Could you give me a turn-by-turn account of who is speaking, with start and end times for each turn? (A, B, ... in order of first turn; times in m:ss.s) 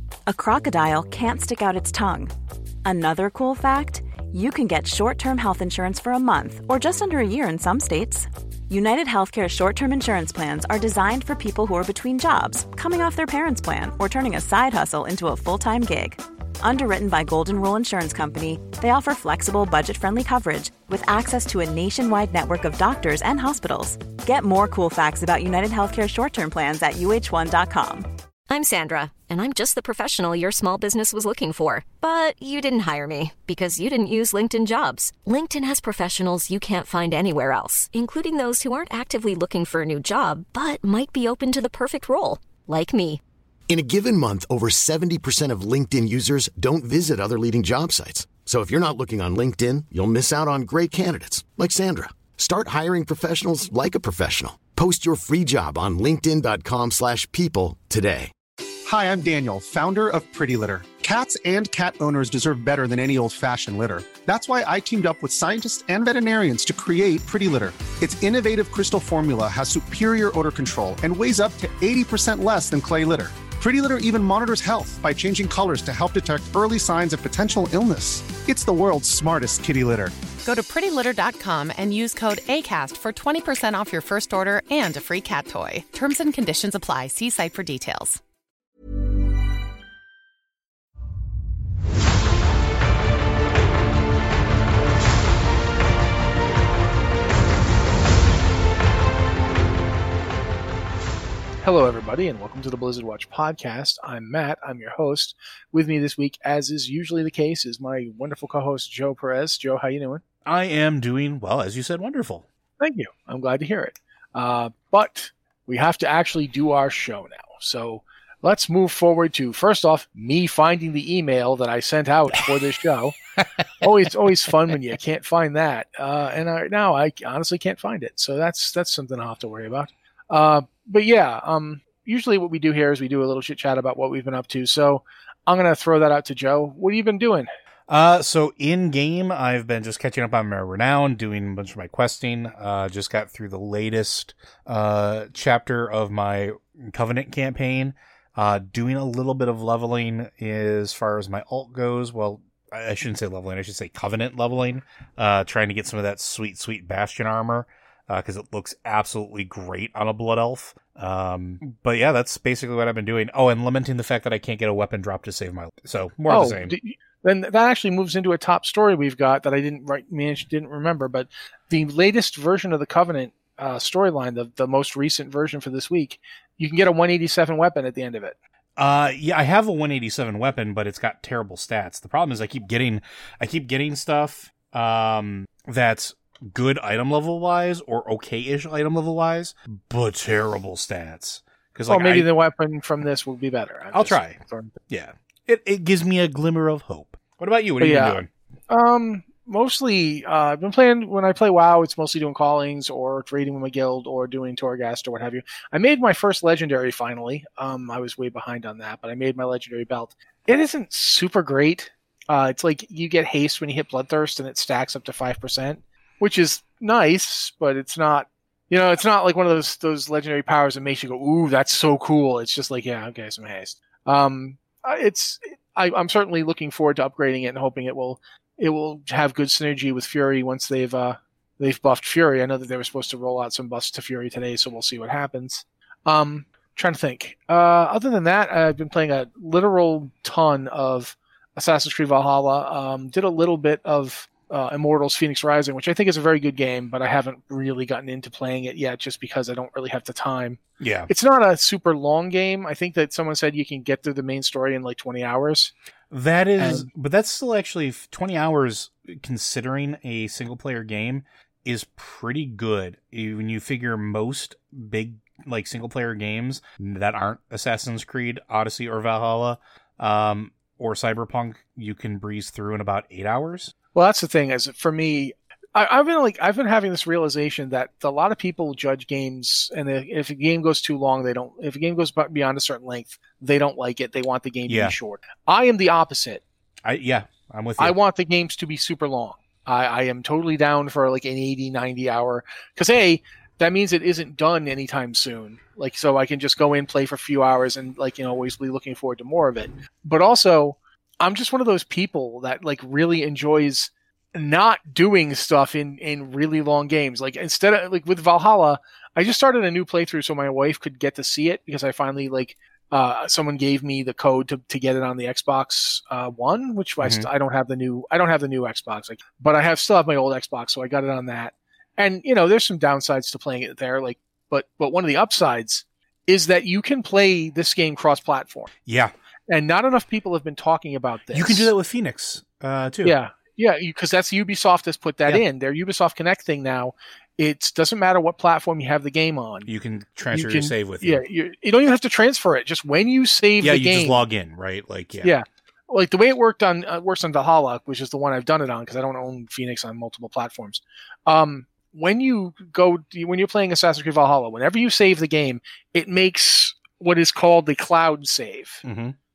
0:00.3-0:02.3 A
0:02.8-0:28.1 A
0:28.5-0:43.2 B
0:43.7-0:58.3 C
0:58.8-1:20.1 D
1:20.4-1:28.2 E
1:41.6-1:50.2 F
1:50.4-1:52.4 G
1:52.8-2:03.2 F
2:03.8-2:17.5 F
2:17.9-2:46.7 G
2:46.3-2:58.3 F
2:58.8-3:12.3 G
3:11.9-3:14.7 F
3:13.9-3:14.4 G
3:14.9-3:18.3 G
3:17.8-3:18.2 F
3:18.7-4:15.7 F
4:10.8-4:11.1 G
4:16.1-4:33.7 G
4:16.6-4:16.9 F
4:33.9-4:46.4 F
4:44.7-4:45.0 G
4:46.8-4:48.0 G
4:47.8-5:28.7 F
5:17.0-5:17.3 G
5:28.8-5:29.1 G
5:29.5-5:31.7 F
5:31.3-5:33.2 G
5:33.0-5:39.7 F
5:39.7-5:41.2 G
5:40.3-5:44.2 F
5:43.6-5:45.3 G
5:45.2-5:58.8 F
5:58.8-5:59.2 G